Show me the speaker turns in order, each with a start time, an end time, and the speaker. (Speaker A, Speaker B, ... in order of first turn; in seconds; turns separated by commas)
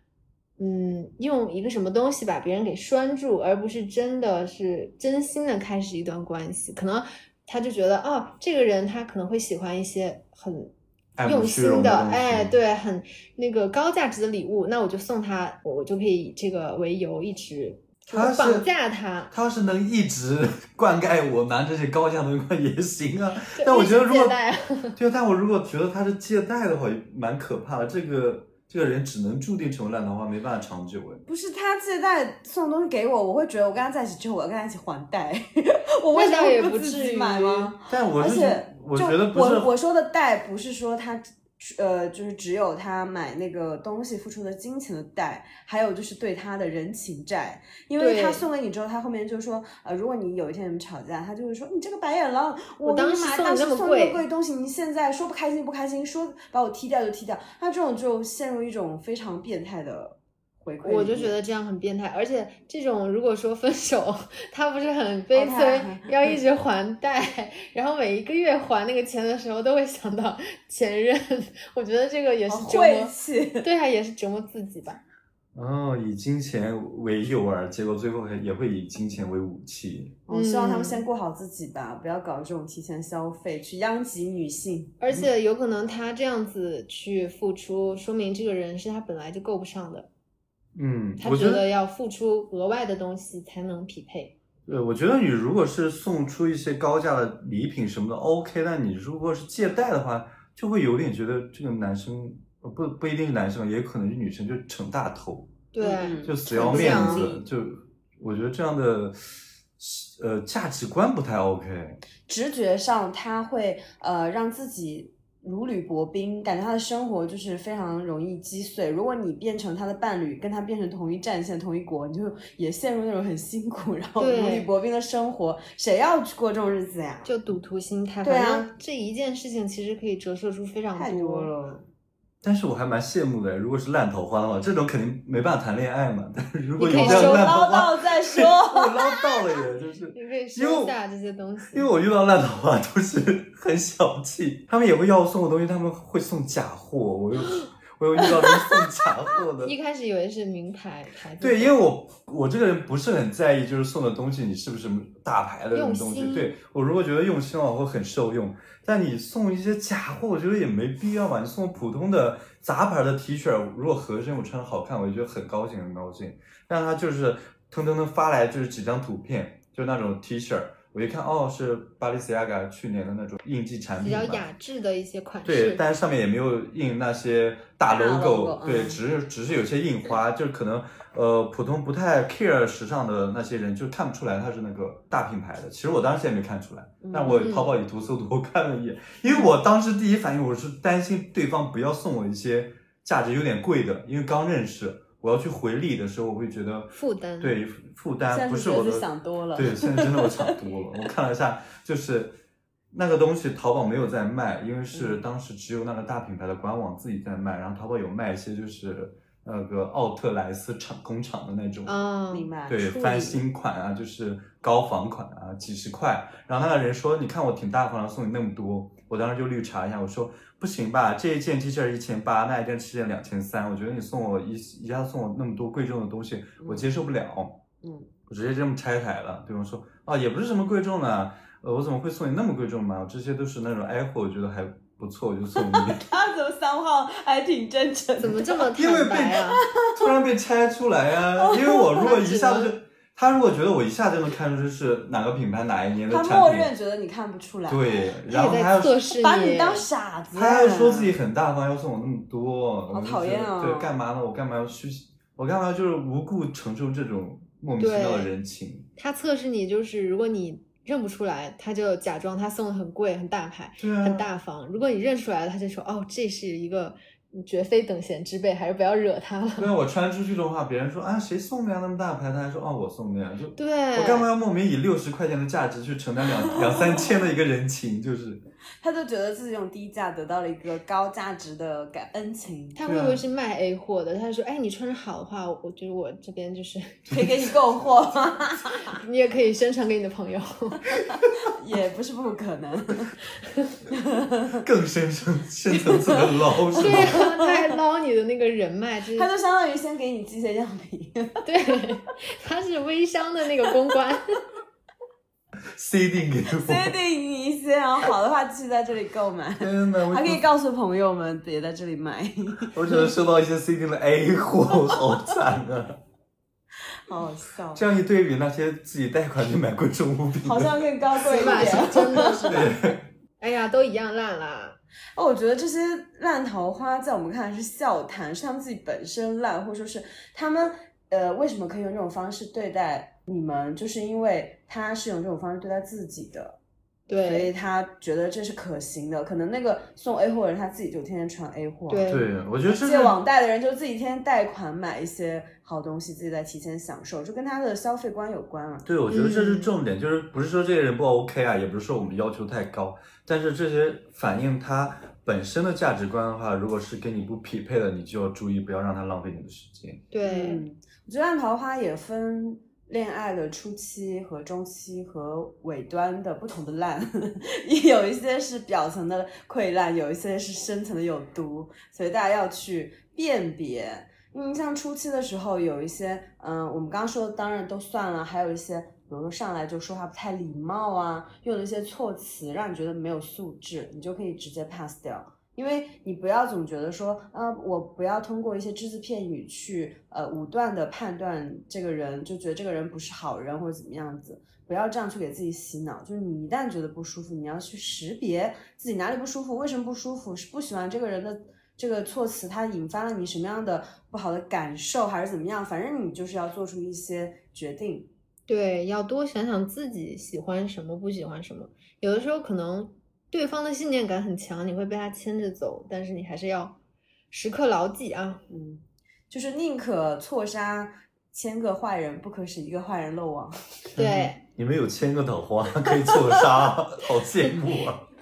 Speaker A: 0.6-10.7, Speaker B: 11.2-12.6, Speaker A: 11.2-19.3, Speaker B: 18.1-18.7, Speaker B: 19.3-24.4, Speaker A: 23.5-25.0, Speaker B: 25.0-31.2, Speaker C: 31.2-61.4, Speaker A: 36.1-37.7, Speaker B: 37.9-39.7, Speaker A: 48.0-48.5, Speaker A: 52.8-54.2, Speaker A: 60.8-75.0, Speaker C: 65.3-66.4, Speaker C: 72.5-73.7, Speaker B: 75.5-80.2, Speaker C: 80.3-85.3, Speaker A: 80.3-81.1, Speaker A: 85.0-90.1, Speaker B: 90.7-91.7, Speaker A: 91.2-94.3, Speaker B: 94.7-105.6, Speaker A: 105.7-107.4, Speaker C: 105.8-107.4, Speaker B: 106.2-112.0, Speaker C: 112.3-127.3, Speaker A: 124.2-124.7, Speaker A: 127.3-131.5, Speaker C: 128.2-128.7, Speaker C: 130.9-131.9, Speaker B: 132.4-140.9, Speaker A: 136.8-137.5, Speaker C: 136.9-139.6, Speaker A: 140.1-141.9, Speaker B: 141.7-149.8, Speaker C: 148.3-148.8, Speaker A: 149.6-151.8, Speaker B: 151.4-174.4, Speaker A: 155.7-156.6, Speaker A: 174.0-175.8, Speaker B: 175.4-202.4, Speaker C: 177.9-179.0, Speaker C: 187.0-187.5, Speaker A: 187.3-187.8, Speaker A: 196.9-197.6, Speaker C: 198.3-200.5, Speaker B: 202.9-211.9, Speaker C: 204.9-205.2, Speaker A: 211.9-213.4, Speaker C: 212.3-212.8, Speaker B: 212.7-227.6, Speaker C: 226.6-226.9, Speaker C: 227.8-228.1, Speaker B: 228.3-236.2, Speaker C: 235.6-238.6, Speaker A: 238.2-239.6, Speaker B: 238.7-246.7, Speaker C: 239.7-240.1, Speaker C: 241.4-242.1, Speaker A: 241.9-242.7, Speaker C: 246.1-248.2, Speaker B: 247.7-249.0, Speaker A: 248.3-249.9, Speaker C: 249.1-251.1, Speaker B: 250.3-258.9, Speaker C: 252.9-253.9, Speaker A: 257.8-258.3, Speaker A: 258.9-269.7, Speaker B: 263.8-264.3, Speaker B: 269.6-278.4, Speaker A: 273.6-274.3, Speaker C: 276.6-277.1, Speaker C: 278.8-282.8, Speaker A: 282.8-287.2, Speaker B: 282.9-283.2, Speaker C: 287.1-288.9, Speaker A: 288.9-290.9, Speaker C: 291.1-293.1, Speaker C: 293.9-294.6, Speaker B: 294.6-297.2, Speaker C: 295.7-297.8, Speaker A: 296.8-299.3, Speaker C: 299.1-301.8, Speaker A: 301.4-304.4, Speaker B: 305.8-306.9, Speaker C: 306.5-313.1, Speaker B: 309.6-310.4, Speaker B: 312.7-316.0, Speaker C: 317.1-317.9, Speaker B: 317.8-323.0, Speaker C: 320.4-322.7, Speaker A: 321.3-324.8, Speaker C: 325.1-336.6, Speaker A: 337.1-337.5, Speaker C: 337.2-342.1, Speaker A: 341.9-342.3, Speaker B: 342.1-343.2, Speaker C: 342.6-348.9, Speaker B: 348.9-360.0, Speaker A: 349.1-349.8, Speaker A: 360.1-360.6, Speaker C: 360.2-408.1, Speaker A: 408.5-416.8, Speaker A: 417.3-418.4, Speaker C: 418.5-423.6, Speaker B: 423.9-428.1, Speaker A: 423.9-424.4, Speaker C: 425.9-426.1